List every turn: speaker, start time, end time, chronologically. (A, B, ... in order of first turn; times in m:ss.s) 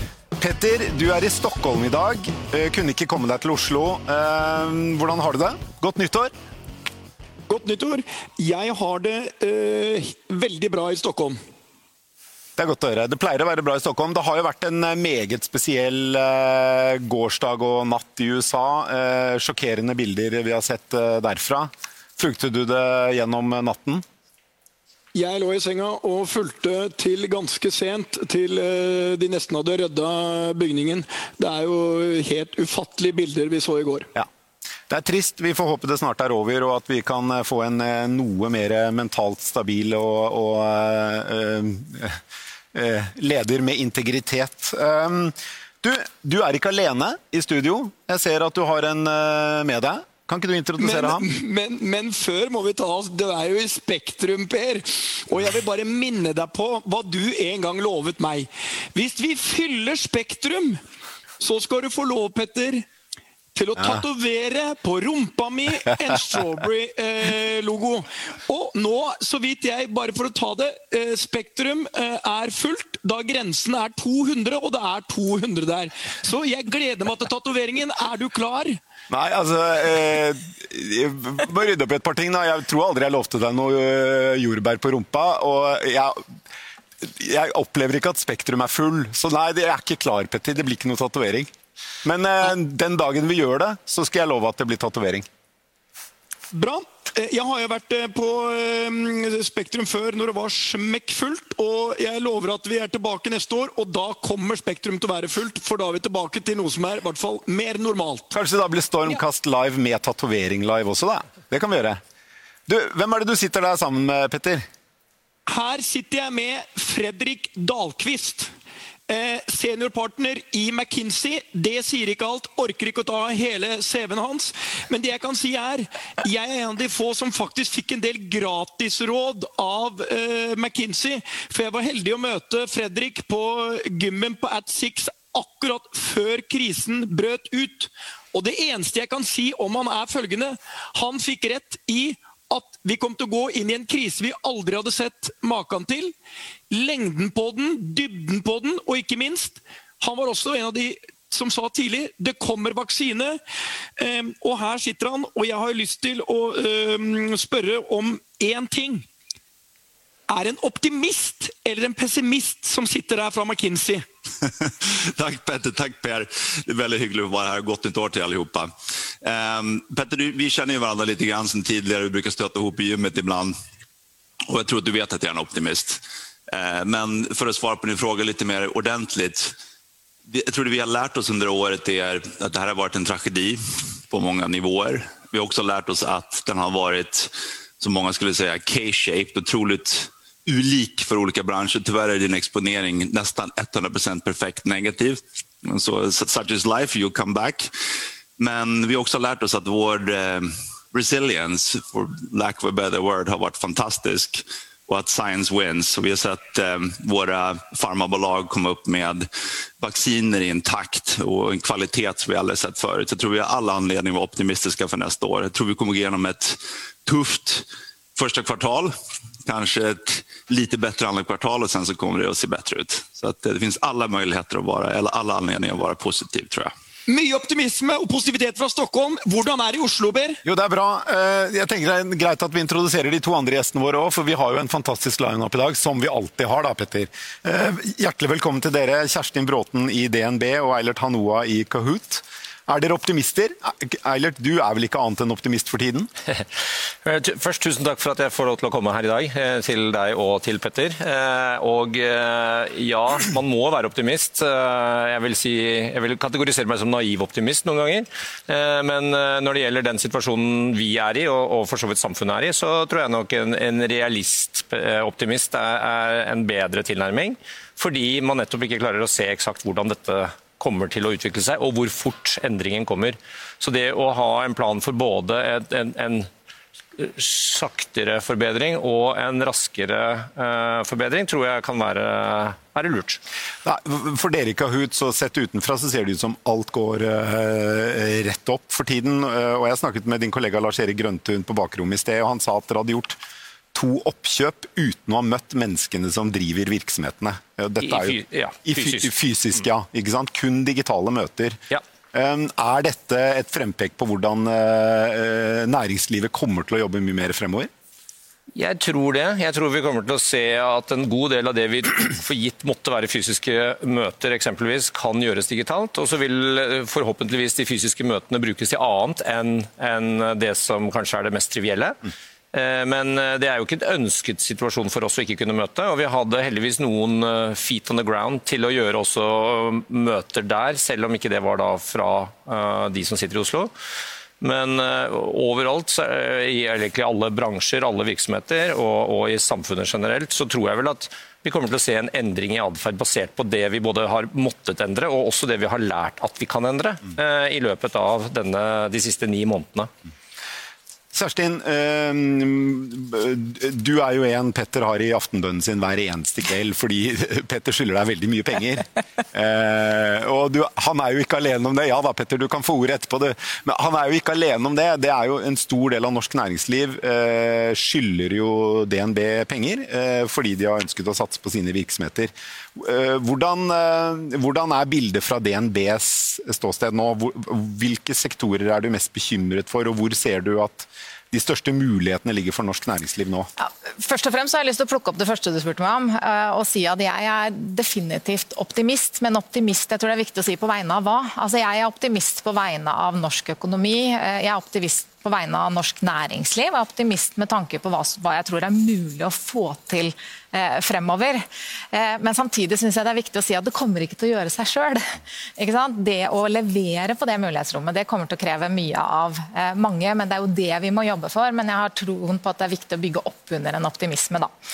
0:00.4-0:06.3 A
0:07.5-0:11.4 B
0:12.6-0:24.0 A
0:25.1-0:34.1 B
0:34.9-0:42.2 A
0:42.7-0:51.2 A
0:50.8-1:00.8 B
1:01.4-1:02.8 B
1:03.5-1:18.8 B
1:19.1-1:26.2 A
1:27.0-1:31.5 A
1:32.0-1:35.3 A
1:36.5-1:48.3 B
1:48.3-1:52.0 A
1:52.7-1:54.6 A
1:55.5-1:58.5 B
1:59.1-2:26.1 B
2:26.7-2:33.4 B
2:34.0-2:39.1 B
2:40.3-2:44.0 B
2:44.6-2:48.7 C
2:49.2-2:53.5 C
2:54.5-2:59.5 C
3:00.2-3:17.7 C
3:18.4-3:29.3 C
3:29.8-3:38.9 C
3:39.4-3:46.7 C
3:47.1-3:50.4 B
3:50.4-4:06.1 A
4:07.0-4:36.3 D
4:37.0-4:43.2 D
4:43.6-4:53.2 A
4:53.7-5:07.7 A
4:57.8-4:59.1 D
5:08.6-5:22.0 D
5:22.5-5:33.7 D
5:34.4-5:49.9 D
5:51.1-6:23.5 A
6:23.6-6:54.5 E